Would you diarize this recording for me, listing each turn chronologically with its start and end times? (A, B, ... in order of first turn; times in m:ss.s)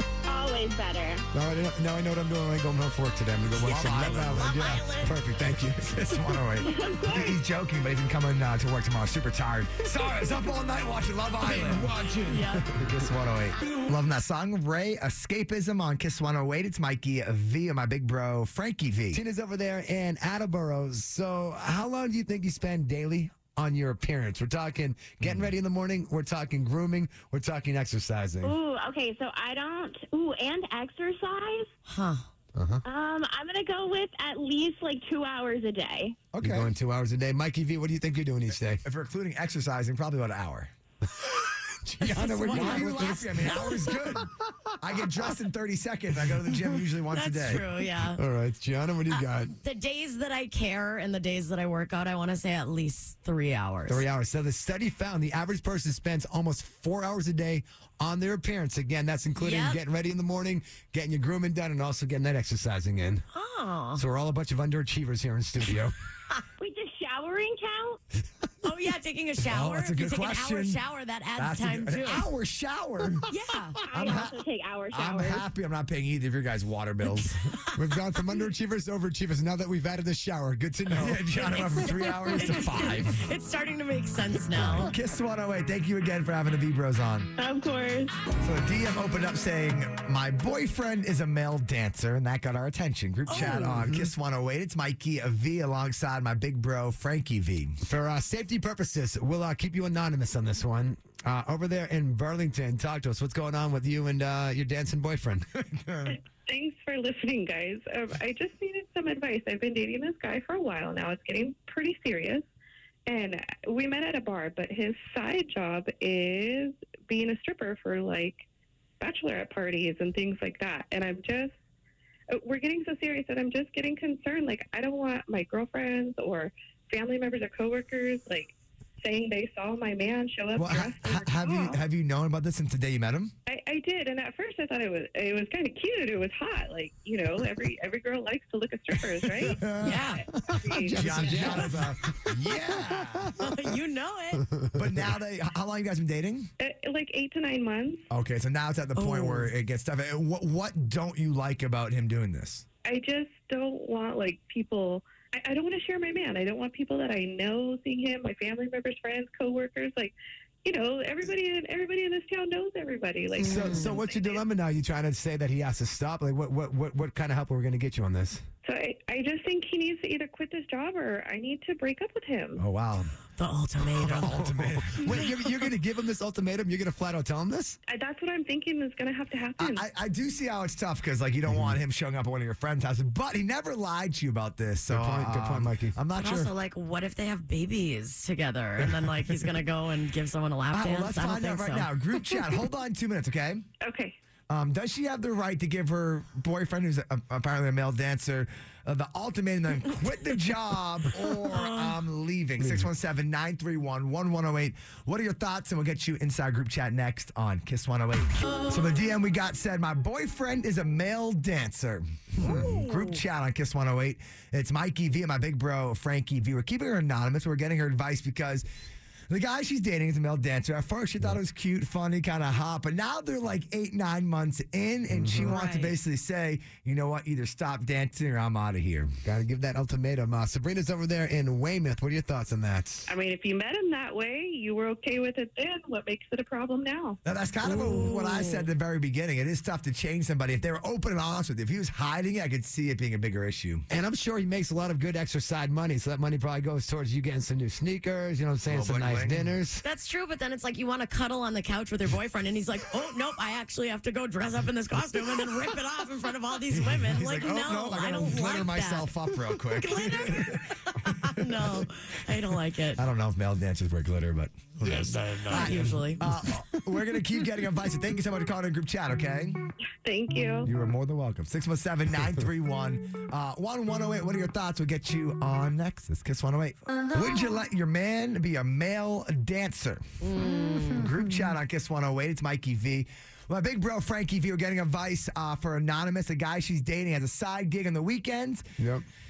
0:00.3-0:01.2 A
0:01.3-0:05.9 B
0:03.6-0:04.5 C
0:04.0-0:05.2 D
0:05.6-0:19.2 C
0:06.6-0:07.4 A
0:11.4-0:11.9 B
0:11.4-0:12.6 D
0:19.1-0:28.6 B
0:25.2-0:25.5 C
0:28.4-0:31.7 A
0:31.9-0:32.2 D
0:32.6-0:32.8 B
0:32.8-0:36.2 A
0:36.3-0:36.7 C
0:36.4-0:38.8 B
0:38.8-0:40.7 C
0:41.8-0:43.7 B
0:42.1-0:43.9 D
0:42.4-0:44.3 C
0:44.8-0:47.7 C
0:47.1-0:48.2 D
0:48.2-0:49.5 B
0:49.1-0:54.0 D
0:53.9-1:03.2 B
0:59.4-0:59.8 D
1:03.3-1:04.0 D
1:04.0-1:05.9 B
1:06.6-1:08.0 A
1:08.6-1:12.3 D
1:09.4-1:10.8 C
1:11.4-1:13.3 C
1:13.3-1:13.8 D
1:13.9-1:15.5 A
1:13.9-1:17.4 C
1:17.8-1:21.2 B
1:20.9-1:23.3 C
1:21.4-1:24.9 D
1:24.6-1:24.9 B
1:24.6-1:27.3 C
1:27.4-1:28.1 A
1:28.4-1:37.8 C
1:33.3-1:33.8 D
1:33.3-1:34.1 B
1:37.8-1:45.5 B
1:45.7-1:46.2 C
1:46.5-1:52.5 E
1:53.1-1:58.4 E
1:59.0-2:01.5 E
2:02.3-2:11.8 E
2:10.6-2:13.3 C
2:13.5-2:20.0 E
2:19.0-2:20.0 C
2:19.8-2:20.2 D
2:20.5-2:23.3 B
2:20.6-2:21.7 E
2:20.9-2:23.4 C
2:21.3-2:21.6 D
2:23.4-2:24.5 D
2:24.8-2:26.5 C
2:26.6-2:28.0 E
2:28.1-2:32.7 C
2:29.0-2:29.5 D
2:32.8-2:44.4 E
2:43.4-2:43.9 D
2:43.4-2:48.4 B
2:48.6-2:52.6 E
2:52.6-2:53.1 C
2:53.4-2:54.4 D
2:54.0-2:55.4 C
2:54.1-2:57.8 B
2:57.9-2:59.8 E
2:59.6-3:06.5 C
3:04.9-3:06.0 B
3:06.2-3:11.9 D
3:10.7-3:13.6 C
3:13.8-3:14.2 E
3:14.5-3:38.7 C
3:21.5-3:22.0 D
3:22.6-3:22.9 B
3:32.4-3:32.7 B
3:32.4-3:33.2 D
3:39.3-3:49.1 C
3:45.1-3:45.6 B
3:45.4-3:46.0 D
3:49.2-3:53.1 B
3:53.1-3:57.2 E
3:57.2-4:03.8 C
3:57.6-3:58.7 D
4:03.9-4:09.8 B
4:08.6-4:09.6 C
4:09.8-4:19.1 D
4:16.8-4:20.6 C
4:19.7-4:23.0 D
4:23.0-4:29.6 C
4:24.8-4:26.5 B
4:25.5-4:26.2 D
4:29.9-4:30.7 E
4:30.6-4:40.0 C
4:40.2-4:41.1 D
4:40.9-4:48.7 C
4:48.8-4:49.0 B